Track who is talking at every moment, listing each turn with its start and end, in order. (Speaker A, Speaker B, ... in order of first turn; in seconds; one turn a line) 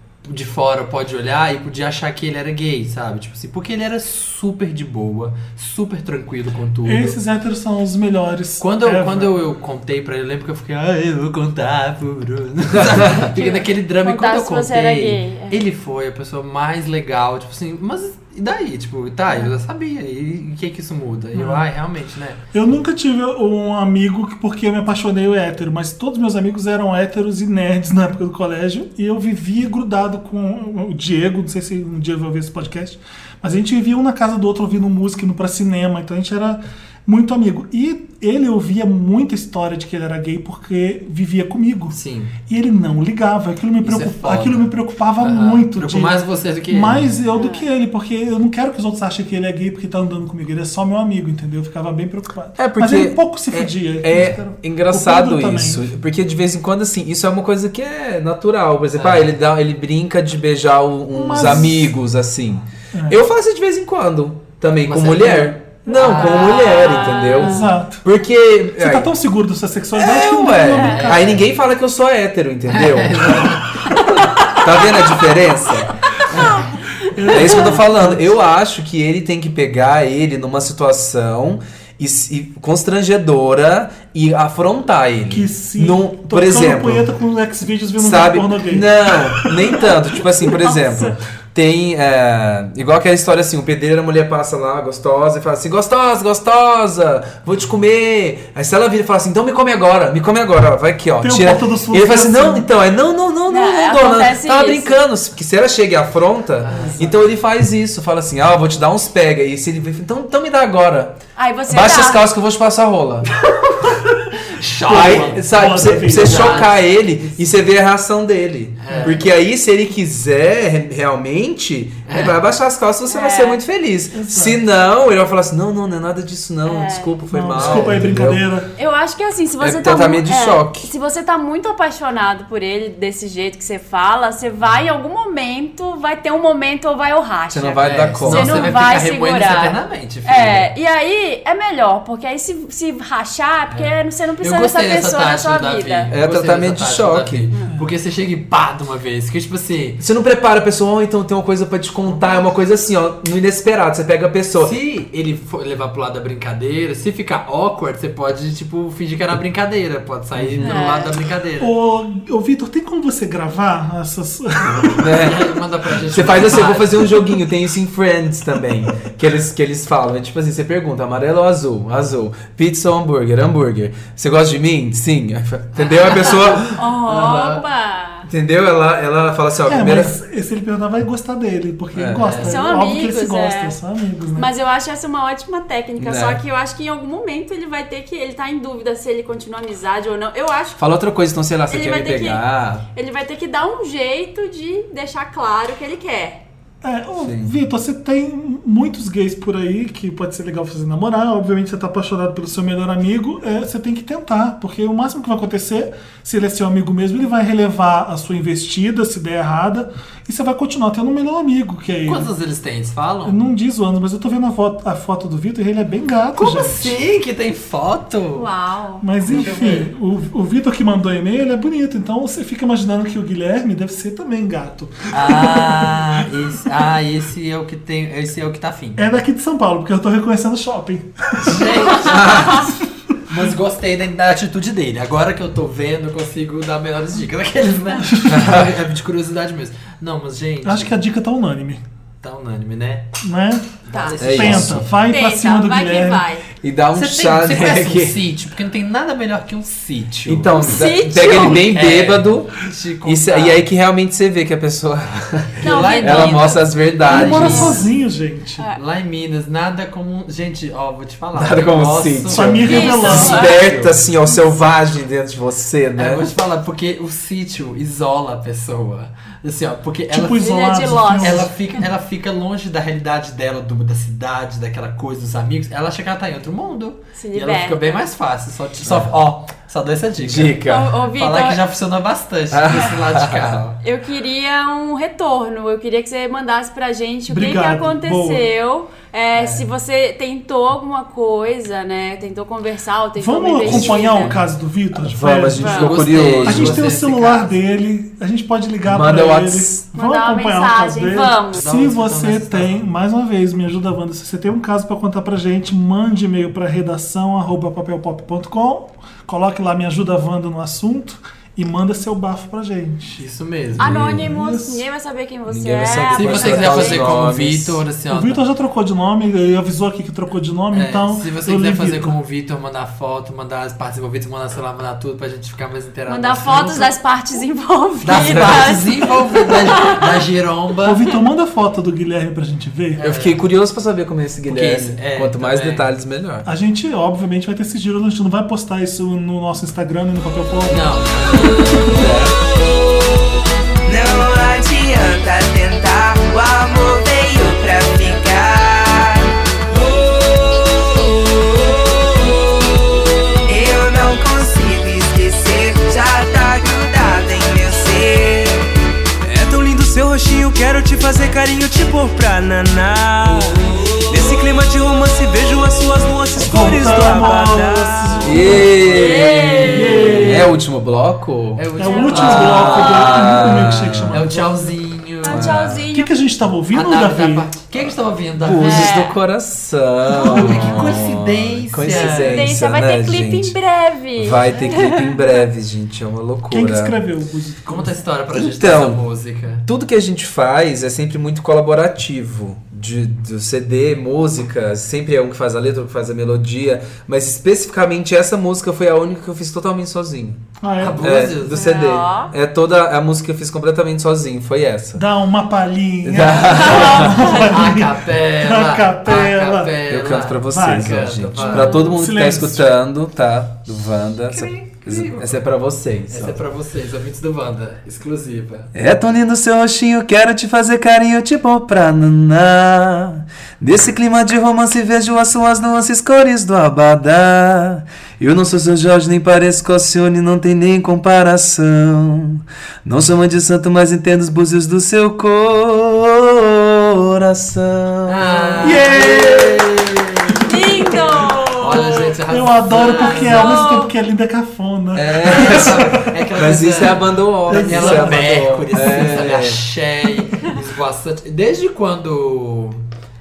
Speaker A: 0.2-7.2
Speaker B: 6.8-9.3
Speaker A: 8.6-22.4
Speaker C: 13.2-15.6
Speaker B: 21.3-21.7
Speaker B: 22.5-46.1
Speaker A: 41.9-42.3
Speaker A: 43.8-47.1
Speaker B: 46.7-55.9
Speaker C: 47.3-47.7
Speaker D: 52.6-69.1
Speaker A: 58.9-59.3
Speaker B: 61.1-61.9
Speaker B: 62.9-63.2
Speaker A: 64.8-66.8
Speaker C: 66.1-67.7
Speaker B: 67.4-68.0
Speaker B: 68.8-71.4
Speaker D: 70.0-73.6
Speaker C: 70.7-71.0
Speaker A: 70.8-71.4
Speaker A: 72.7-74.5
Speaker D: 74.5-75.9
Speaker A: 76.3-76.7
Speaker B: 77.0-78.3
Speaker D: 77.3-87.1
Speaker C: 77.5-77.8
Speaker B: 85.3-89.9
Speaker D: 88.0-111.2
Speaker B: 101.2-102.7
Speaker C: 103.5-105.0
Speaker A: 106.6-107.3
Speaker C: 111.4-112.2
Speaker D: 111.7-113.3
Speaker A: 113.3-117.7
Speaker B: 114.9-116.7
Speaker D: 114.9-128.5
Speaker A: 118.8-119.2
Speaker B: 118.9-119.2
Speaker A: 122.1-122.4
Speaker C: 123.1-123.6
Speaker B: 124.1-124.6
Speaker C: 126.7-127.2
Speaker B: 127.3-128.7
Speaker A: 127.5-128.0
Speaker C: 128.8-146.1
Speaker D: 129.6-130.9
Speaker D: 137.5-138.7
Speaker A: 137.8-140.7
Speaker A: 143.7-150.0
Speaker D: 146.1-147.5
Speaker D: 150.0-154.8
Speaker A: 152.1-152.4
Speaker A: 154.6-161.7
Speaker D: 160.4-160.8
Speaker C: 160.6-161.2
Speaker B: 161.6-165.2
Speaker D: 164.8-165.5
Speaker A: 165.1-167.3
Speaker D: 166.1-176.8
Speaker A: 175.8-177.7
Speaker C: 176.7-178.3
Speaker D: 178.3-180.2
Speaker B: 179.7-184.5
Speaker D: 181.9-182.3
Speaker A: 182.2-182.7
Speaker C: 182.4-183.8
Speaker C: 184.3-190.8
Speaker D: 186.0-186.4
Speaker D: 190.8-192.8
Speaker C: 191.7-192.4
Speaker C: 192.9-196.4
Speaker B: 196.8-212.3
Speaker D: 197.2-197.6
Speaker A: 212.1-213.4
Speaker B: 213.2-217.0
Speaker A: 216.3-218.5
Speaker C: 218.3-219.0
Speaker B: 219.0-226.1
Speaker A: 219.2-219.9
Speaker A: 225.1-229.0
Speaker B: 229.0-231.9
Speaker A: 231.4-232.7
Speaker D: 232.0-232.7
Speaker A: 233.3-241.0
Speaker B: 238.1-238.4
Speaker D: 238.3-238.7
Speaker B: 240.7-241.8
Speaker A: 242.2-243.1
Speaker B: 243.2-246.3
Speaker A: 243.8-244.9
Speaker C: 243.9-244.2
Speaker D: 244.2-244.9
Speaker C: 245.1-246.4
Speaker D: 246.6-248.2
Speaker A: 246.9-250.5
Speaker D: 250.3-257.8
Speaker C: 250.5-251.7
Speaker A: 251.2-253.6
Speaker C: 255.6-256.6
Speaker A: 255.6-257.9
Speaker B: 257.0-258.6
Speaker C: 257.2-257.8
Speaker A: 258.8-264.0
Speaker D: 261.3-266.3
Speaker B: 262.3-263.5
Speaker C: 262.6-263.7
Speaker A: 266.0-270.5
Speaker B: 270.1-271.5
Speaker C: 270.3-271.5
Speaker A: 271.2-283.8
Speaker C: 277.2-278.1
Speaker D: 278.9-279.1
Speaker D: 280.2-280.9
Speaker C: 280.6-281.6
Speaker D: 282.5-283.6
Speaker C: 283.8-294.4
Speaker B: 287.3-288.5
Speaker A: 289.4-289.7
Speaker B: 293.2-313.2
Speaker D: 293.6-294.3
Speaker D: 294.9-296.9
Speaker C: 295.6-296.0
Speaker A: 295.6-297.6
Speaker D: 298.9-299.8
Speaker C: 299.9-301.6
Speaker A: 301.5-302.8
Speaker A: 313.2-314.0
Speaker D: 313.8-314.3
Speaker C: 313.8-317.1
Speaker B: 314.2-314.8
Speaker D: 315.5-317.8
Speaker A: 316.1-318.4
Speaker B: 318.1-322.1
Speaker A: 320.7-326.9
Speaker C: 326.1-330.0
Speaker A: 328.0-331.1
Speaker D: 328.1-328.7
Speaker B: 330.8-333.0
Speaker A: 332.9-333.4
Speaker D: 333.0-336.5
Speaker A: 334.4-335.9
Speaker B: 336.4-342.1
Speaker A: 340.7-342.2
Speaker D: 341.9-342.4
Speaker E: 343.8-352.6
Speaker E: 353.4-358.6
Speaker E: 359.2-368.3
Speaker B: 366.4-368.9
Speaker D: 368.2-374.2
Speaker A: 368.5-370.5
Speaker C: 368.9-370.1
Speaker B: 369.6-370.5
Speaker A: 371.6-375.5
Speaker B: 371.8-374.8
Speaker C: 371.8-373.0
Speaker C: 375.2-376.1
Speaker D: 375.3-375.9
Speaker B: 375.9-377.5
Speaker A: 376.7-379.0
Speaker D: 377.8-383.6
Speaker C: 378.6-379.2
Speaker A: 380.1-382.5
Speaker B: 380.2-380.9
Speaker C: 381.9-385.3
Speaker D: 384.2-387.0
Speaker B: 386.5-388.0
Speaker A: 387.7-389.6
Speaker D: 388.3-389.0
Speaker D: 389.6-400.4
Speaker B: 400.6-401.2
Speaker A: 400.8-401.7
Speaker D: 401.0-405.0
Speaker C: 401.5-402.3
Speaker B: 404.9-409.8
Speaker D: 406.1-407.4
Speaker C: 406.5-407.5
Speaker A: 407.4-411.9
Speaker D: 409.9-416.4
Speaker B: 410.5-411.0
Speaker C: 411.5-411.9
Speaker B: 411.8-412.8
Speaker A: 414.3-415.5
Speaker A: 416.1-418.7
Speaker D: 418.7-438.9
Speaker A: 438.1-440.5
Speaker B: 438.6-439.7
Speaker C: 440.5-442.2
Speaker B: 440.5-446.1
Speaker A: 441.6-443.6
Speaker C: 442.8-443.9
Speaker D: 444.9-449.6
Speaker A: 445.3-452.8
Speaker B: 447.5-449.1